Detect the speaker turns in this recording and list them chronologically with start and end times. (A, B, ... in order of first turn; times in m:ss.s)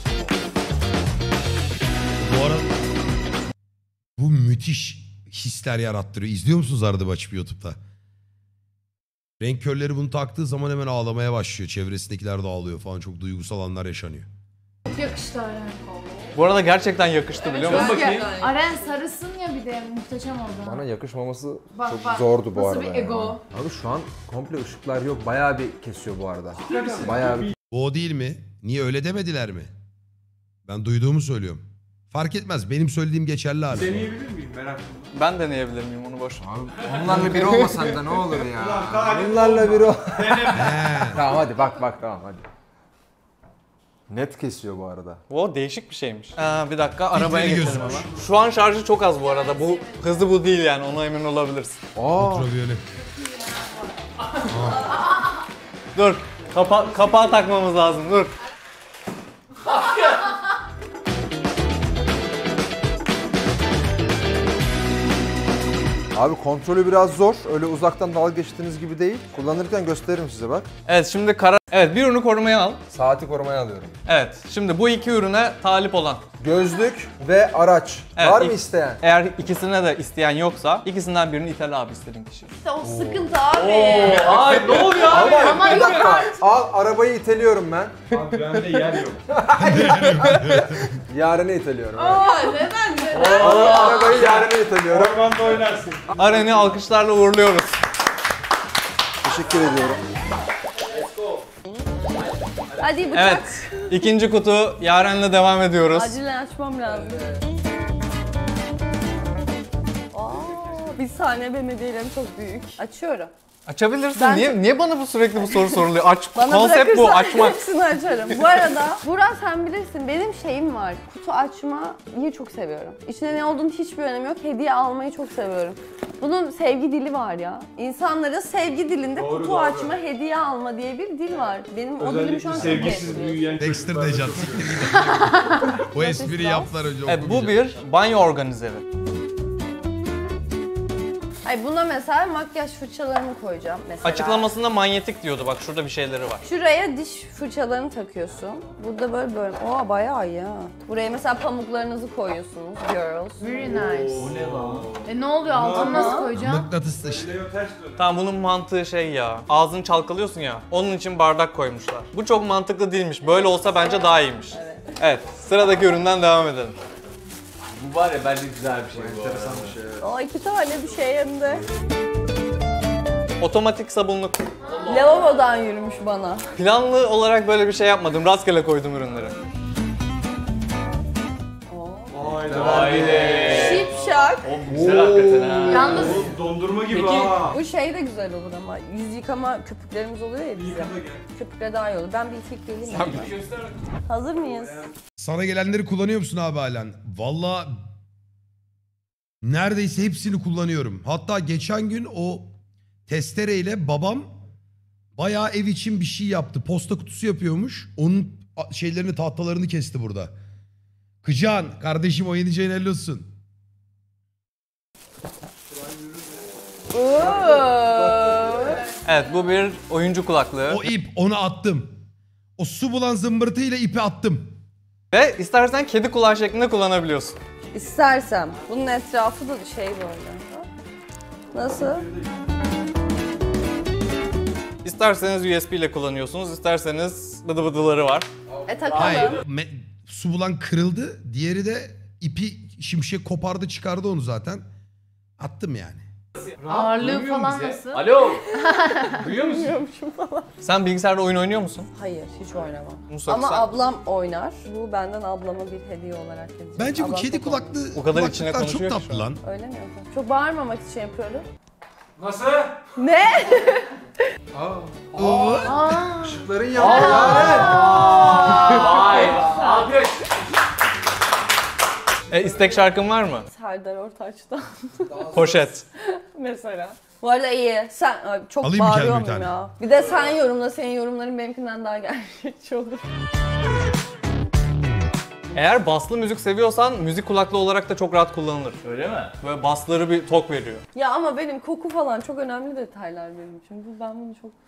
0:02.2-0:02.7 A
0:04.2-0:07.8 A
0:09.4-0:14.3 A
0:14.8-0:16.3 B
0:16.3-0:18.0 C
0:17.4-0:19.0 D
0:17.6-0:20.8 B
0:17.6-0:18.3 E
0:20.6-0:27.5 F
0:21.7-0:23.4 B
0:26.6-0:27.5 G
0:26.7-0:27.1 E
0:27.7-0:29.7 A
0:30.6-0:34.1 A
0:33.7-0:35.1 G
0:35.1-0:36.4 C
0:36.4-0:42.5 F
0:37.0-0:37.9 C
0:38.5-0:41.1 G
0:40.5-0:41.2 A
0:44.1-0:45.2 F
0:45.3-0:51.8 C
0:47.1-0:48.0 A
0:47.6-0:48.2 G
0:49.1-0:50.2 B
0:52.0-0:52.5 F
0:52.1-0:52.8 A
0:53.2-0:53.7 B
0:54.5-0:54.9 A
0:55.9-0:58.3 C
1:06.1-1:10.7 F
1:10.8-1:12.8 C
1:12.9-1:13.9 F
1:14.0-1:16.2 C
1:16.4-1:19.0 F
1:18.2-1:22.5 C
1:22.5-1:24.6 D
1:22.8-1:23.3 F
1:23.5-1:26.1 E
1:24.8-1:25.5 G
1:25.0-1:32.3 F
1:25.0-1:26.4 B
1:28.1-1:29.2 G
1:29.6-1:31.0 A
1:31.9-1:34.0 B
1:32.1-1:33.4 D
1:33.1-1:34.2 E
1:33.2-1:35.5 F
1:34.0-1:36.1 G
1:36.2-1:37.8 C
1:39.2-1:40.0 F
1:42.8-1:43.8 D
1:43.1-1:46.2 C
1:45.9-1:47.3 D
1:50.1-1:53.3 D
1:53.6-1:57.6 C
1:54.1-1:54.6 D
1:55.5-1:55.8 D
1:56.3-2:13.6 D
2:09.1-2:09.9 G
2:12.0-2:15.2 G
2:13.6-2:17.7 A
2:15.6-2:16.7 D
2:17.0-2:18.8 C
2:21.4-2:24.5 D
2:24.0-2:26.4 C
2:26.4-2:33.5 D
2:33.4-2:34.3 B
2:33.6-2:36.2 G
2:34.2-2:34.9 E
2:35.0-2:36.7 B
2:35.7-2:36.3 D
2:36.3-2:37.3 A
2:37.0-2:38.0 G
2:38.0-2:46.8 C
2:44.5-2:44.9 D
2:47.7-2:49.8 E
2:48.9-2:50.0 F
2:50.0-2:51.7 D
2:53.4-2:54.4 C
2:54.6-2:55.4 E
2:54.8-2:56.4 D
2:56.6-2:59.4 C
3:01.7-3:02.2 D
3:02.1-3:04.1 G
3:02.5-3:03.1 F
3:02.5-3:03.9 E
3:03.4-3:04.5 D
3:04.4-3:06.3 E
3:04.7-3:05.8 F
3:05.4-3:07.6 G
3:05.7-3:06.3 B
3:06.9-3:07.4 E
3:07.5-3:13.3 D
3:10.5-3:11.2 G
3:12.9-3:13.7 E
3:14.0-3:14.8 D
3:15.2-3:17.8 A
3:19.4-3:22.5 A
3:23.1-3:24.3 A
3:25.2-3:30.3 A
3:31.2-3:33.3 A
3:35.8-3:36.3 G
3:36.9-3:38.9 D
3:37.1-3:38.3 F
3:39.0-3:40.9 C
3:40.7-3:42.0 A
3:42.6-3:44.6 A
3:45.1-3:47.4 C
3:47.7-3:50.7 D
3:51.5-3:52.1 D
3:51.7-3:52.1 G
3:54.8-3:58.3 C
3:58.6-3:59.4 D
3:58.9-4:04.6 A
4:05.4-4:06.0 A
4:06.6-4:08.5 E
4:06.7-4:09.2 B
4:08.8-4:10.5 D
4:09.1-4:09.8 E
4:10.6-4:11.9 C
4:11.9-4:17.8 D
4:13.1-4:13.7 C
4:16.8-4:19.4 A
4:17.9-4:19.3 C
4:19.4-4:21.5 D
4:22.2-4:22.8 G
4:23.0-4:23.9 D
4:24.5-4:27.9 F
4:25.1-4:26.0 A
4:25.6-4:29.6 B
4:26.7-4:30.2 E
4:26.9-4:29.6 D
4:27.1-4:28.6 G
4:32.3-4:33.5 C
4:33.5-4:35.3 D
4:35.1-4:35.7 F
4:35.3-4:35.8 C
4:36.0-4:43.0 D
4:38.6-4:39.5 A
4:45.5-4:48.8 C
4:48.8-4:49.3 E
4:49.4-4:50.8 C
4:50.9-4:54.6 D